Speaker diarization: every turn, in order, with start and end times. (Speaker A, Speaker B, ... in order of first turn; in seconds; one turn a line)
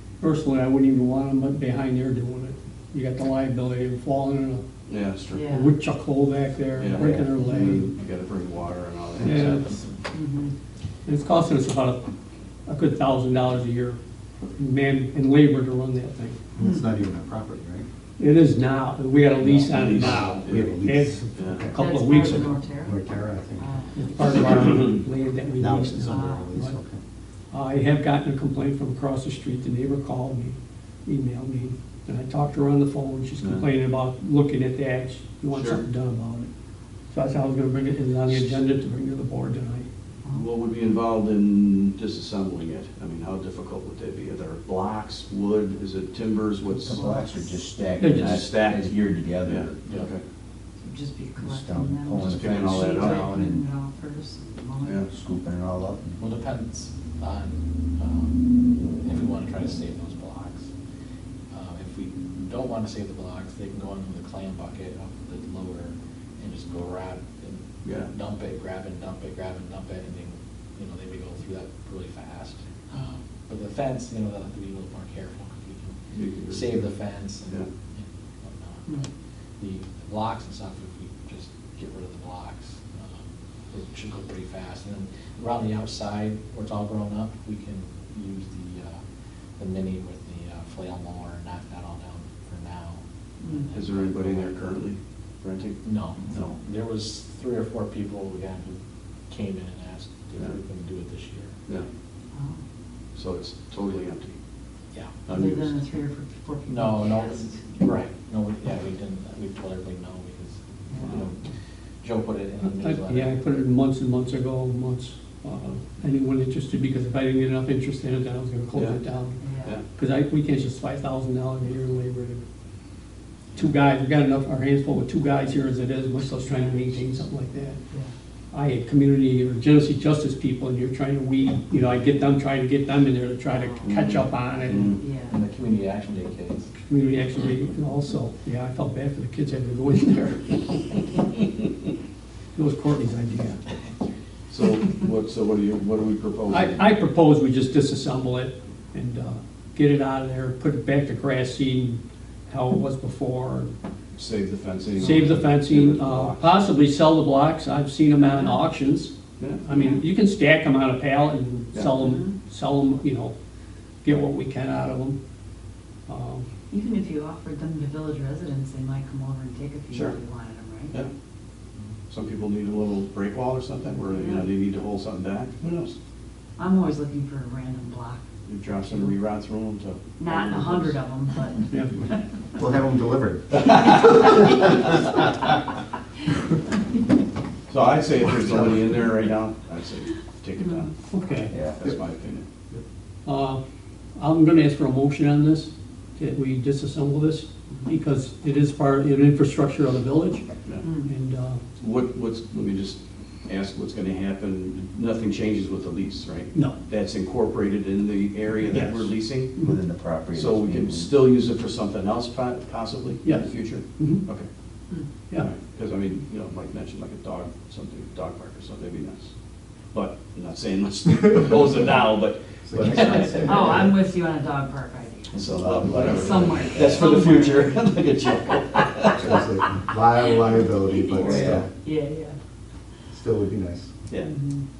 Speaker A: 0.2-4.6
Speaker B: 4.9-5.5
Speaker C: 5.3-5.7
Speaker A: 5.5-7.9
Speaker B: 6.7-9.8
Speaker A: 9.2-9.7
Speaker C: 10.1-10.5
Speaker A: 11.1-12.0
Speaker A: 12.7-14.0
Speaker A: 14.6-16.4
Speaker D: 16.5-17.9
Speaker C: 16.6-16.8
Speaker A: 18.2-22.5
Speaker B: 19.4-20.8
Speaker D: 19.8-21.8
Speaker B: 21.3-21.6
Speaker C: 21.7-23.0
Speaker D: 22.8-23.7
Speaker C: 23.6-24.0
Speaker A: 23.9-26.8
Speaker B: 24.7-25.0
Speaker D: 25.5-27.0
Speaker C: 26.0-26.5
Speaker A: 27.5-36.5
Speaker B: 33.4-33.7
Speaker B: 35.5-35.8
Speaker A: 37.1-39.9
Speaker B: 38.3-38.6
Speaker B: 40.3-47.1
Speaker E: 46.6-49.8
Speaker C: 46.9-47.5
Speaker A: 48.0-48.5
Speaker B: 48.0-50.2
Speaker C: 50.8-55.1
Speaker E: 51.4-53.6
Speaker B: 52.2-53.4
Speaker B: 54.8-55.1
Speaker E: 55.1-56.2
Speaker F: 56.2-60.7
Speaker F: 61.5-76.0
Speaker B: 67.8-68.1
Speaker B: 76.1-76.9
Speaker F: 76.5-89.0
Speaker F: 89.6-94.5
Speaker C: 93.4-93.7
Speaker B: 93.7-96.5
Speaker F: 95.8-98.8
Speaker F: 99.3-101.5
Speaker C: 102.3-102.6
Speaker B: 103.1-104.3
Speaker F: 104.9-105.3
Speaker B: 105.2-105.8
Speaker C: 105.3-107.8
Speaker F: 106.7-113.3
Speaker C: 110.9-111.2
Speaker A: 112.6-122.4
Speaker B: 118.7-119.0
Speaker C: 119.4-119.7
Speaker A: 123.5-127.8
Speaker C: 126.4-126.9
Speaker A: 128.5-134.9
Speaker C: 133.5-134.1
Speaker B: 133.8-135.0
Speaker C: 134.8-135.4
Speaker F: 135.2-136.7
Speaker A: 136.8-140.9
Speaker A: 142.5-143.6
Speaker B: 144.5-146.9
Speaker A: 146.5-153.7
Speaker B: 154.2-156.8
Speaker A: 155.0-163.3
Speaker C: 158.3-158.6
Speaker B: 159.4-159.6
Speaker C: 159.7-160.0
Speaker C: 161.9-162.3
Speaker A: 164.0-165.2
Speaker A: 166.1-166.4
Speaker C: 166.7-171.0
Speaker B: 169.9-170.2
Speaker B: 172.1-175.9
Speaker C: 174.1-174.5
Speaker C: 176.6-178.2
Speaker B: 178.4-181.0
Speaker C: 178.8-179.2
Speaker C: 180.2-182.2
Speaker D: 182.5-184.5
Speaker B: 183.7-184.2
Speaker C: 184.4-184.7
Speaker B: 187.7-190.9
Speaker A: 191.1-191.5
Speaker E: 191.5-191.8
Speaker B: 191.6-192.5
Speaker A: 193.2-193.6
Speaker A: 194.2-201.6
Speaker C: 200.8-201.1
Speaker B: 201.8-209.6
Speaker A: 208.7-209.8
Speaker E: 209.6-211.1
Speaker B: 210.3-214.5
Speaker A: 213.2-214.2
Speaker B: 215.3-219.3
Speaker B: 219.9-223.5
Speaker D: 222.6-224.0
Speaker C: 222.8-225.4
Speaker B: 225.3-229.4
Speaker D: 225.4-226.8
Speaker C: 226.0-227.9
Speaker D: 229.1-231.7
Speaker C: 230.2-232.3
Speaker A: 231.2-231.7
Speaker D: 233.1-233.9
Speaker C: 234.3-234.6